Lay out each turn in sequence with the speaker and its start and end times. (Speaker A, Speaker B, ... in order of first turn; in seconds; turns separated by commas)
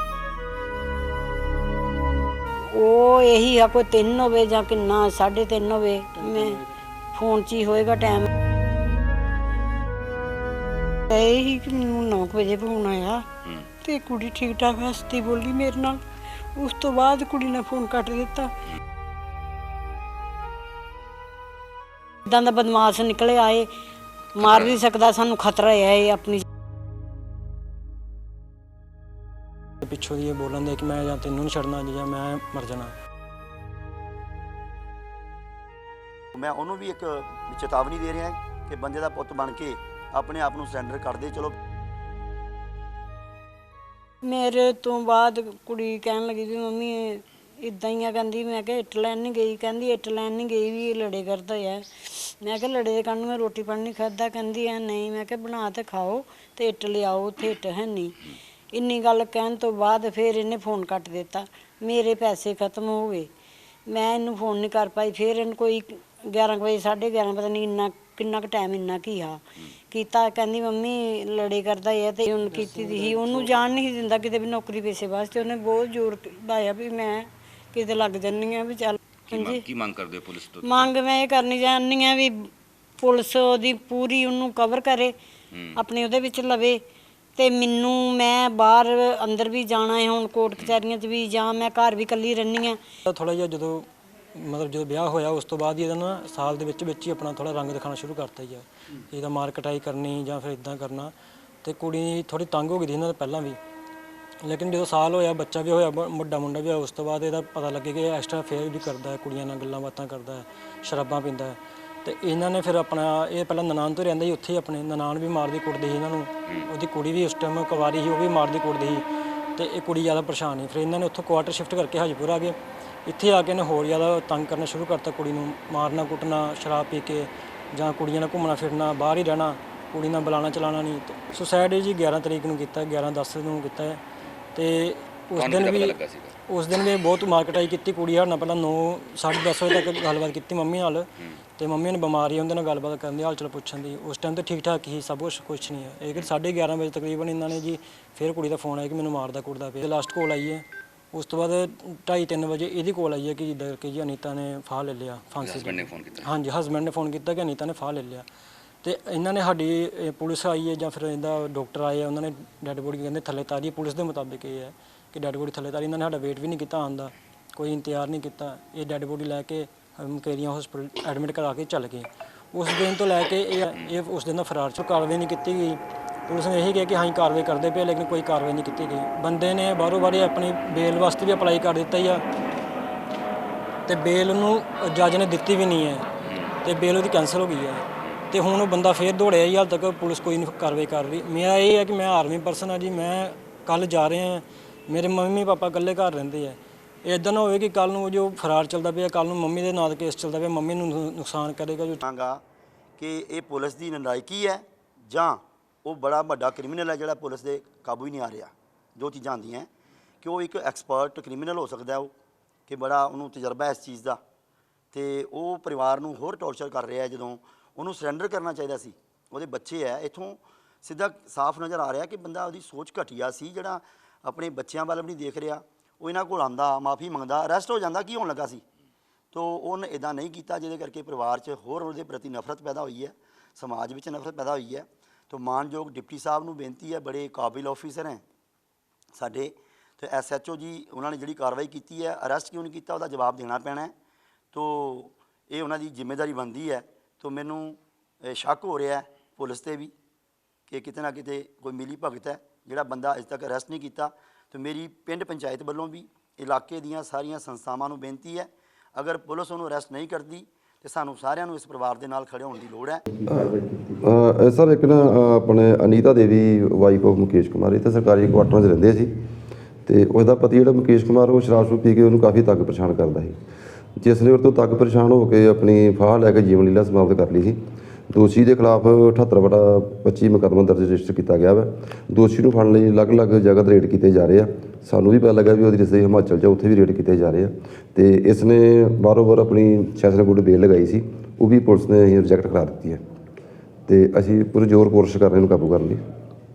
Speaker A: 2.6-6.6, Speaker A: 7.1-8.3, Speaker A: 11.1-13.3, Speaker A: 13.8-16.0, Speaker A: 16.6-18.5, Speaker A: 22.3-23.7, Speaker A: 24.4-26.4, Speaker B: 29.8-32.9, Speaker C: 36.4-41.5, Speaker A: 44.2-63.3, Speaker A: 63.9-79.6, Speaker B: 72.6-73.5, Speaker D: 79.3-80.9, Speaker A: 80.6-85.1, Speaker D: 85.5-85.8, Speaker A: 85.8-86.8, Speaker A: 87.4-92.8, Speaker B: 93.1-101.1, Speaker B: 101.6-103.6, Speaker B: 104.4-119.0, Speaker B: 119.6-134.0, Speaker B: 134.6-158.3, Speaker D: 135.3-136.3, Speaker D: 155.4-156.3, Speaker B: 158.8-182.2, Speaker B: 183.9-186.1, Speaker D: 186.2-186.5, Speaker B: 186.6-202.0, Speaker C: 202.0-202.4, Speaker C: 203.0-209.7, Speaker C: 210.2-212.1, Speaker C: 212.7-214.2, Speaker C: 214.9-228.6, Speaker C: 229.3-238.2, Speaker C: 239.1-243.9, Speaker C: 244.5-249.9, Speaker C: 250.7-263.0, Speaker E: 263.2-269.1, Speaker E: 269.9-273.4, Speaker E: 274.0-277.6, Speaker E: 278.1-293.0, Speaker E: 293.9-296.0